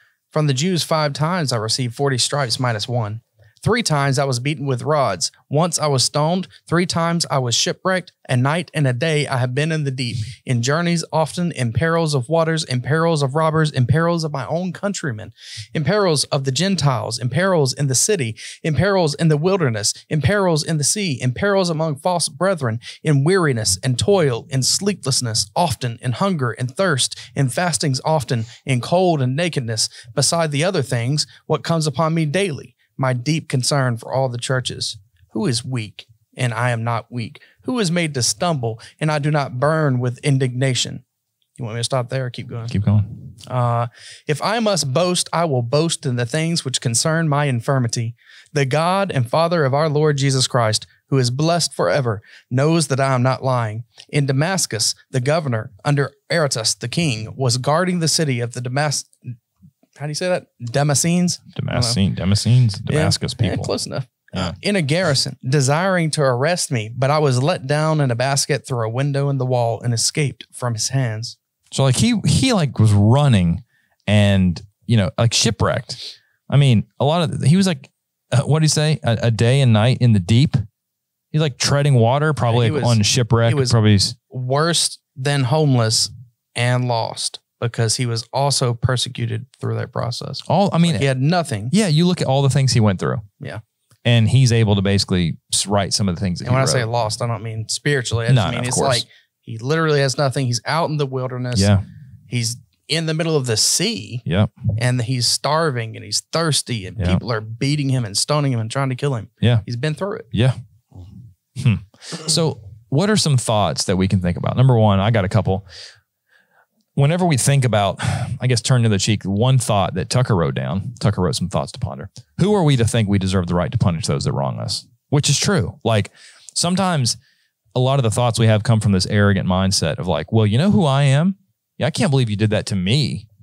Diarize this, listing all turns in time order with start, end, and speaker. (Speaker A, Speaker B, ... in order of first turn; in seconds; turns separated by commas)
Speaker A: 0.3-41.0, Speaker A: 41.6-42.7, Speaker B: 42.7-43.3, Speaker A: 43.5-59.3, Speaker A: 60.0-62.0, Speaker B: 61.5-63.7, Speaker A: 62.9-71.3, Speaker B: 71.7-80.6, Speaker B: 81.3-84.2, Speaker A: 82.5-83.8, Speaker A: 84.3-91.7, Speaker B: 90.5-91.1, Speaker B: 91.7-93.2, Speaker B: 94.0-96.9, Speaker A: 96.4-101.7, Speaker B: 98.3-99.0, Speaker B: 101.5-101.8, Speaker A: 102.3-104.2, Speaker B: 104.2-104.5, Speaker A: 104.8-110.3, Speaker B: 107.0-107.2, Speaker B: 111.6-115.6, Speaker B: 117.0-127.2, Speaker B: 127.7-133.3